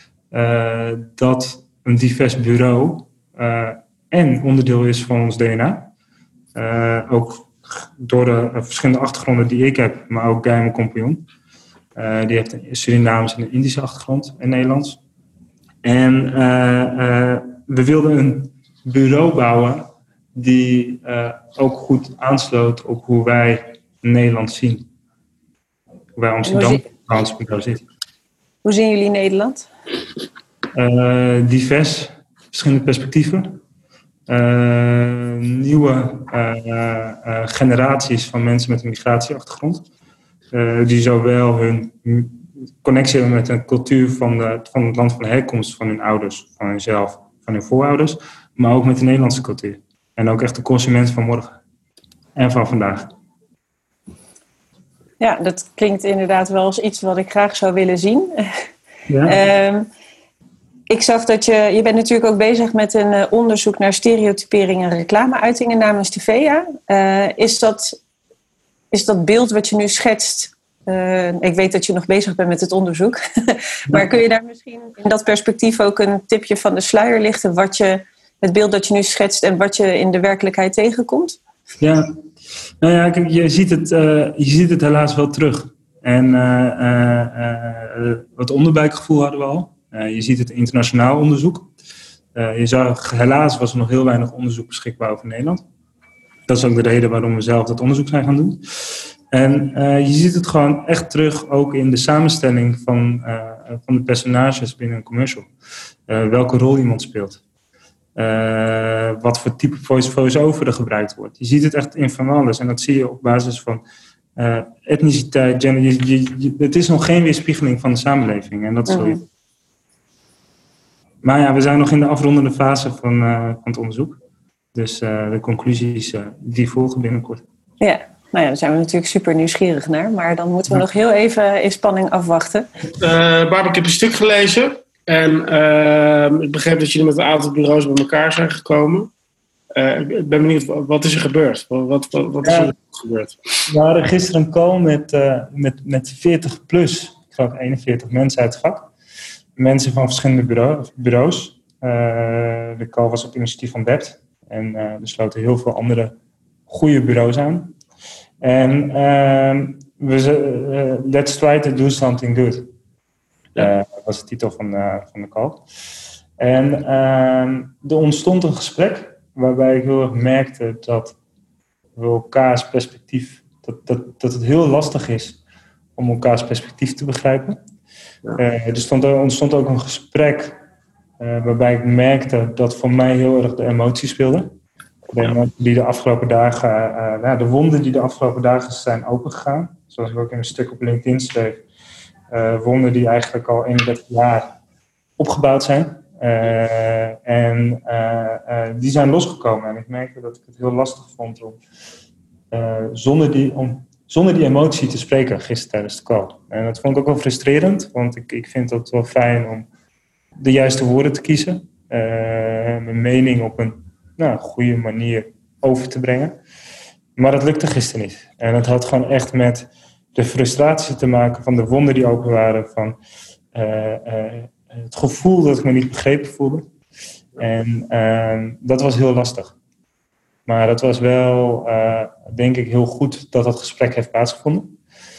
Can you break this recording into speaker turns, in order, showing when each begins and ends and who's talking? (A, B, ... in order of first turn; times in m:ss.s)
0:00.3-0:05.9 A
0:06.6-0:11.2 A
0:12.0-0:15.0 A
0:15.8-0:24.9 A
0:26.2-0:27.8 A
0:26.4-0:26.8 B
0:28.6-0:29.7 B
0:30.7-0:33.6 A
0:34.3-0:39.8 A
0:40.5-0:51.6 A
0:52.4-0:53.1 A
0:55.2-0:58.7 B
0:59.1-0:59.4 A
0:59.3-0:59.9 B
1:00.9-1:08.0 B
1:08.9-1:21.4 B
1:21.8-1:22.0 A
1:22.8-1:31.7 A
1:32.4-1:35.6 A
1:36.5-1:45.5 A
1:46.1-1:47.4 A
1:48.2-1:53.8 A
1:54.4-1:59.2 A
1:58.9-1:59.2 B
2:01.2-2:04.2 A
2:04.7-2:07.4 A
2:07.8-2:12.7 B
2:13.0-2:19.1 C
2:19.8-2:23.4 C
2:22.4-2:22.7 A
2:23.7-2:28.9 A
2:29.6-2:36.2 A
2:36.7-2:37.7 A
2:38.4-2:42.7 A
2:43.6-2:45.6 A
2:46.4-2:51.2 A
2:52.0-2:55.4 A
2:56.0-2:57.6 A
2:58.4-3:00.6 A
3:01.2-3:04.5 A
3:05.1-3:11.6 A
3:12.3-3:14.5 A
3:15.2-3:21.6 A
3:22.5-3:29.7 A
3:30.4-3:36.4 A
3:37.2-3:43.0 A
3:43.5-3:46.7 A
3:47.4-3:49.6 A
3:50.5-3:54.8 A